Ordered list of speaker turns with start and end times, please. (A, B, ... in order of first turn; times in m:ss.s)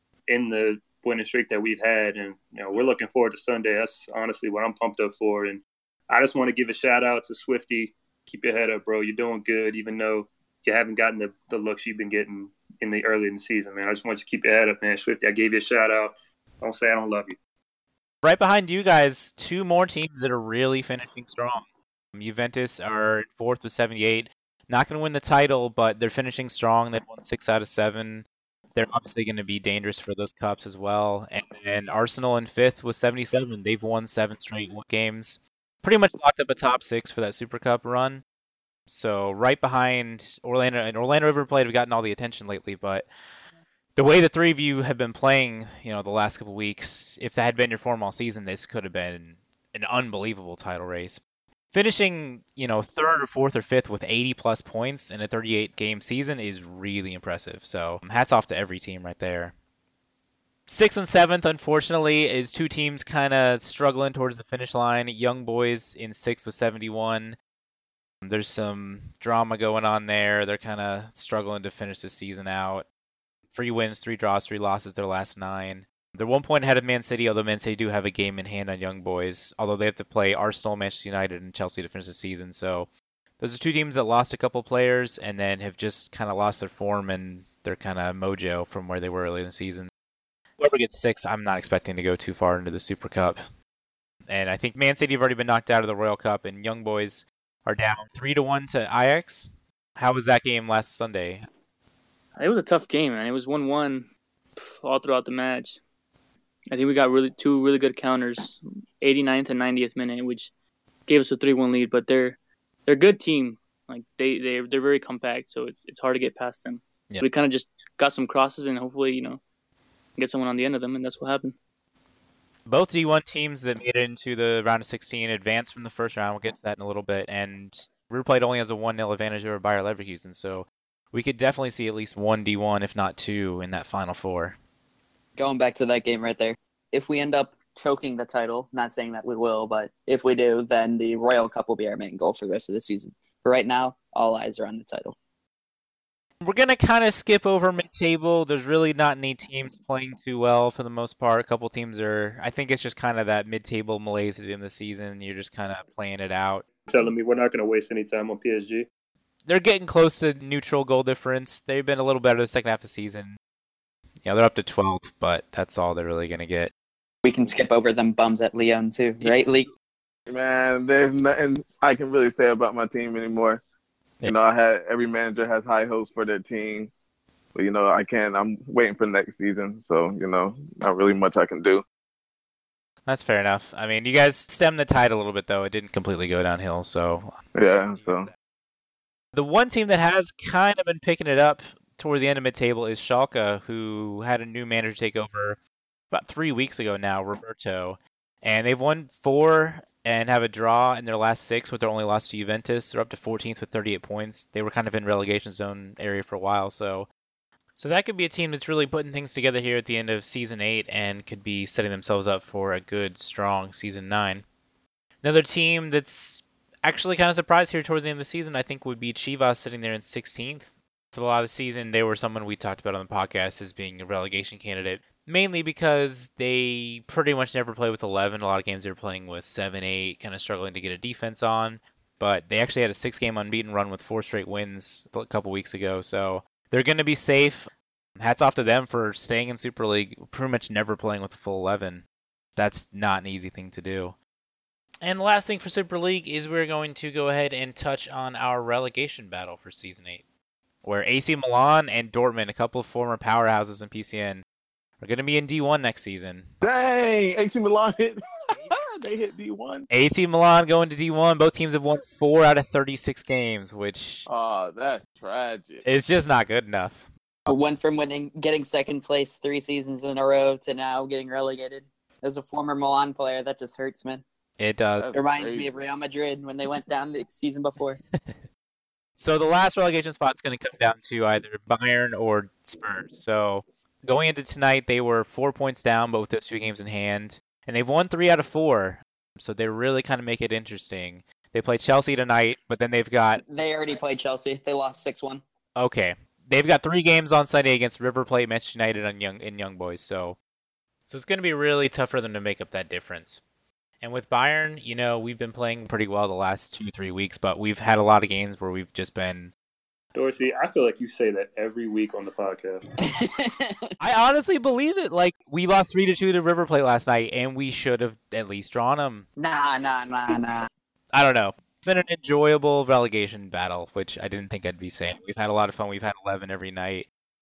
0:00.3-0:17.4 A
0:18.2-0:21.6 B
0:22.1-0:38.2 B
0:38.9-0:43.1 B
0:44.0-0:51.2 B
0:51.7-0:59.5 B
1:00.7-1:07.4 B
1:08.2-1:12.8 B
1:13.5-1:22.9 B
1:23.4-1:29.9 B
1:30.6-1:33.4 B
1:34.3-1:41.4 B
1:42.4-1:45.8 C
1:46.7-1:50.5 C
1:51.1-1:59.4 C
2:00.2-2:01.6 C
2:02.7-2:14.6 B
2:15.4-2:25.1 D
2:26.4-2:36.6 B
2:36.8-2:38.9 A
2:39.5-2:43.4 B
2:44.2-2:46.7 B
2:47.2-2:49.7 D
2:50.3-2:53.6 E
2:54.2-2:56.9 E
2:57.5-3:01.8 E
3:03.0-3:07.3 B
3:07.5-3:08.3 E
3:08.0-3:08.3 B
3:09.3-3:15.6 B
3:16.1-3:27.1 B
3:27.8-3:34.4 B
3:35.2-4:02.0 B
4:02.6-4:04.2 B
4:05.0-4:10.2 B
4:10.8-4:14.4 B
4:15.0-4:16.5 B
4:16.6-4:19.9 E
4:19.9-4:24.3 B
4:24.3-4:25.8 E
4:25.8-4:27.1 B
4:27.5-4:34.2 D
4:34.6-4:35.1 B
4:35.0-4:35.7 E
4:35.1-4:38.0 D
4:39.2-4:53.4 B
4:53.5-4:55.4 D
4:55.8-5:00.4 B
5:01.1-5:03.4 B
5:04.0-5:09.5 B
5:10.1-5:12.8 A
5:13.0-5:13.9 D
5:14.0-5:19.3 B
5:19.4-5:20.7 D
5:21.1-5:27.1 B